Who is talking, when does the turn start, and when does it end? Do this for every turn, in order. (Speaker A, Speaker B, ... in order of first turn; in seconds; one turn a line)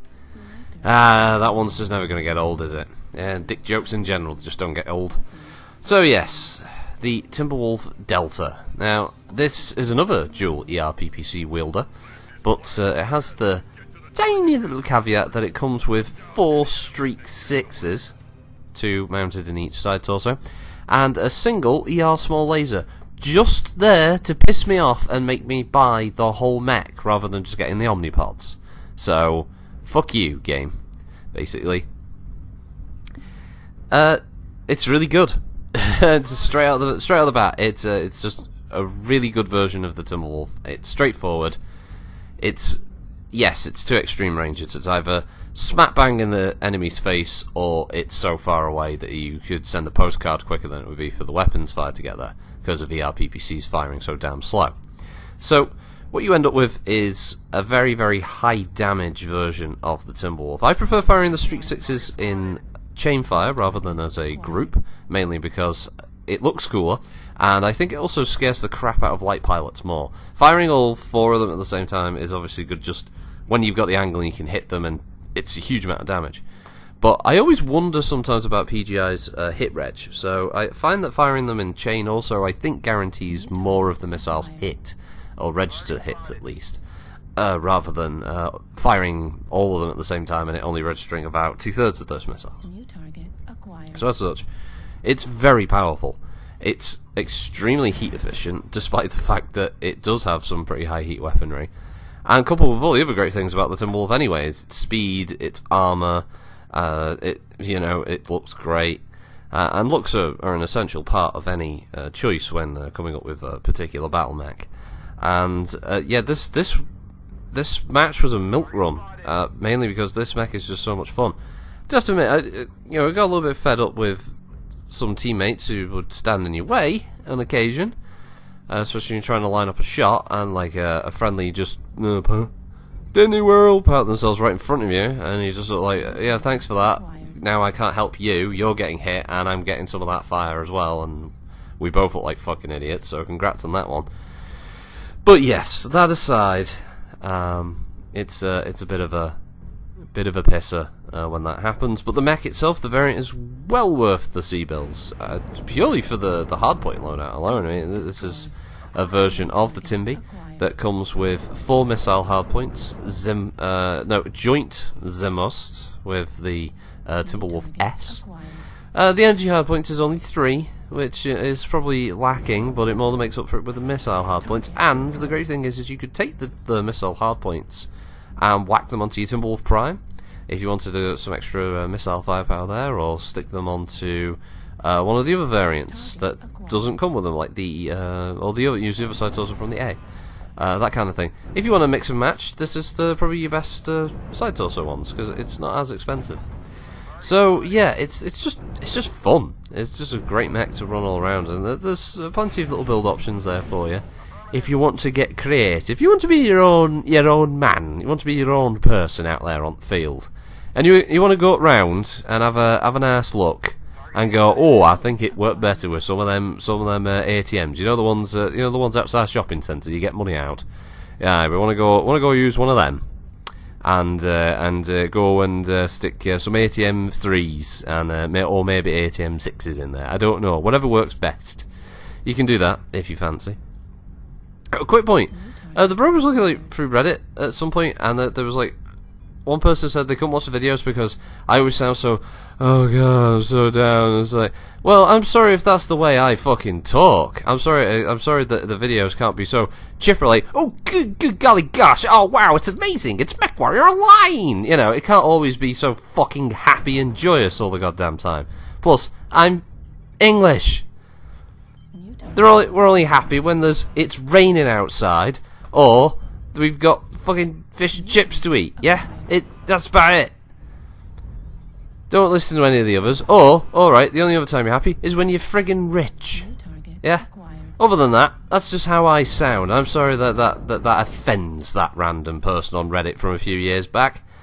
Speaker A: 0.3-0.8
Speaker B: 0.8-5.2
Speaker A: 5.2-5.5
Speaker B: 5.8-11.9
Speaker B: 12.4-18.1
Speaker B: 18.7-30.8
Speaker B: 31.3-31.9
Speaker B: 33.9-41.6
Speaker B: 42.4-42.8
Speaker B: 43.3-54.8
Speaker B: 55.4-76.4
Speaker B: 77.0-86.8
Speaker B: 87.3-92.6
Speaker A: 92.6-93.9
Speaker B: 93.9-94.4
Speaker B: 95.0-101.7
Speaker B: 102.2-116.8
Speaker B: 117.5-121.3
Speaker B: 121.9-124.3
Speaker B: 124.9-127.9
Speaker B: 128.7-132.5
Speaker B: 133.1-144.1
Speaker A: 136.2-137.3
Speaker B: 145.2-149.3
Speaker B: 150.1-168.2
Speaker A: 157.5-158.5
Speaker A: 159.3-160.6
Speaker A: 167.4-168.6
Speaker B: 168.9-190.0
Speaker A: 174.4-174.9
Speaker A: 186.3-186.7
Speaker B: 190.6-196.4
Speaker B: 197.2-220.6
Speaker B: 221.2-223.0
Speaker B: 223.8-231.7
Speaker B: 232.2-233.6
Speaker B: 234.7-238.8
Speaker A: 235.4-235.8
Speaker B: 239.4-259.6
Speaker B: 260.2-260.9
Speaker A: 262.0-262.3
Speaker B: 262.3-270.3
Speaker A: 268.8-269.3
Speaker B: 272.1-276.5
Speaker A: 276.4-277.7
Speaker B: 277.0-284.2